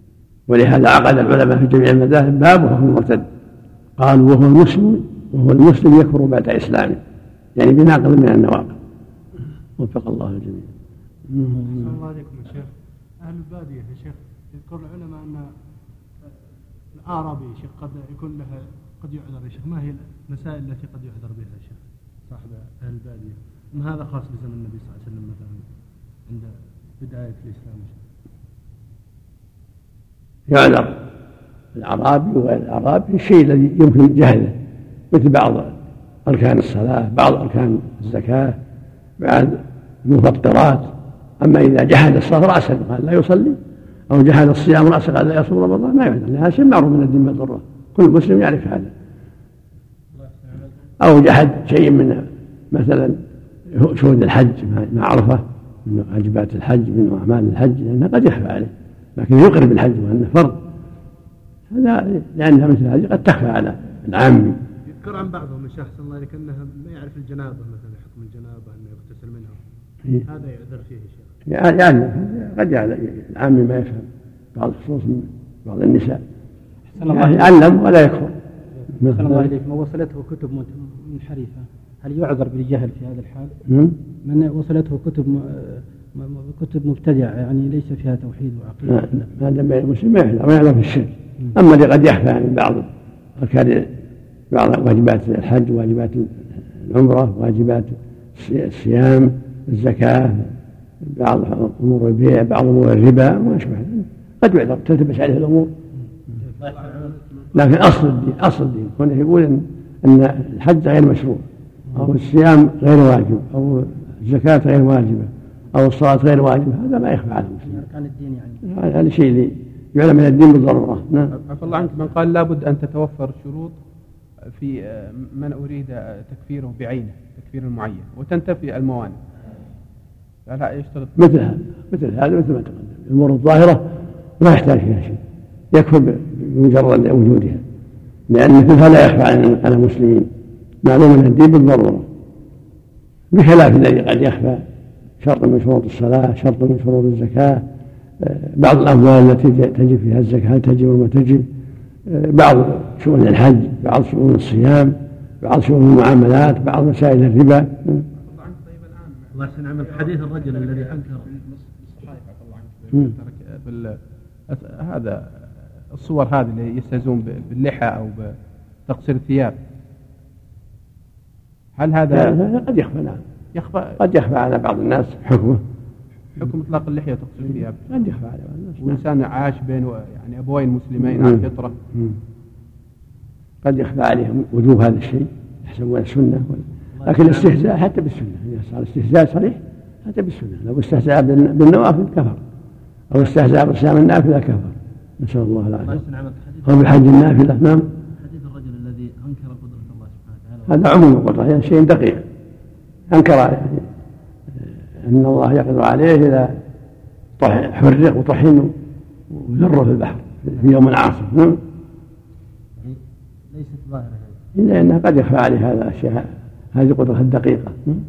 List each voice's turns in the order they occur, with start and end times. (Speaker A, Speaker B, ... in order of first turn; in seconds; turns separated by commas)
Speaker A: 0.5-3.2, Speaker A: 4.0-7.0, Speaker A: 7.6-8.8, Speaker A: 9.8-10.7, Speaker A: 11.3-11.9, Speaker B: 11.6-12.7, Speaker B: 13.2-15.5, Speaker B: 16.9-25.6, Speaker B: 26.3-28.0, Speaker A: 30.5-30.9, Speaker A: 31.7-34.5, Speaker A: 35.1-35.7, Speaker A: 36.2-38.6, Speaker A: 39.2-43.6, Speaker A: 44.1-48.9, Speaker A: 51.0-53.2, Speaker A: 53.7-60.6, Speaker A: 61.7-64.6, Speaker B: 64.9-69.6, Speaker B: 70.2-71.3, Speaker A: 71.5-76.2, Speaker C: 77.0-77.5, Speaker A: 77.1-78.3, Speaker A: 79.0-79.5, Speaker C: 79.1-83.5, Speaker A: 83.7-83.9, Speaker C: 84.2-89.0, Speaker A: 88.8-93.9, Speaker A: 94.5-100.5, Speaker A: 101.0-105.7, Speaker A: 107.5-117.8, Speaker C: 117.6-118.6, Speaker A: 118.6-121.3, Speaker D: 121.5-123.8, Speaker D: 124.5-129.2, Speaker D: 130.4-131.1, Speaker A: 131.2-133.8, Speaker A: 134.4-135.2, Speaker A: 135.7-137.6, Speaker A: 138.3-140.3, Speaker A: 140.8-142.1, Speaker A: 143.3-144.6, Speaker A: 145.2-147.6, Speaker A: 148.2-151.4, Speaker A: 152.1-158.0, Speaker D: 158.2-164.0, Speaker E: 159.3-161.3, Speaker D: 164.5-168.3, Speaker D: 168.9-169.6, Speaker D: 171.8-172.4, Speaker A: 172.1-173.2, Speaker D: 173.5-174.0, Speaker A: 174.0-175.6, Speaker D: 176.4-178.0, Speaker A: 177.9-179.0, Speaker D: 178.8-181.8, Speaker A: 181.1-181.4, Speaker A: 183.6-192.4, Speaker E: 187.0-187.6, Speaker A: 193.1-196.0, Speaker E: 195.8-197.0, Speaker A: 196.6-197.8, Speaker E: 198.2-200.9, Speaker A: 200.7-202.2, Speaker A: 203.1-203.8, Speaker A: 205.0-206.5, Speaker A: 207.4-208.7, Speaker A: 209.3-211.6, Speaker E: 213.5-214.4, Speaker A: 214.6-217.8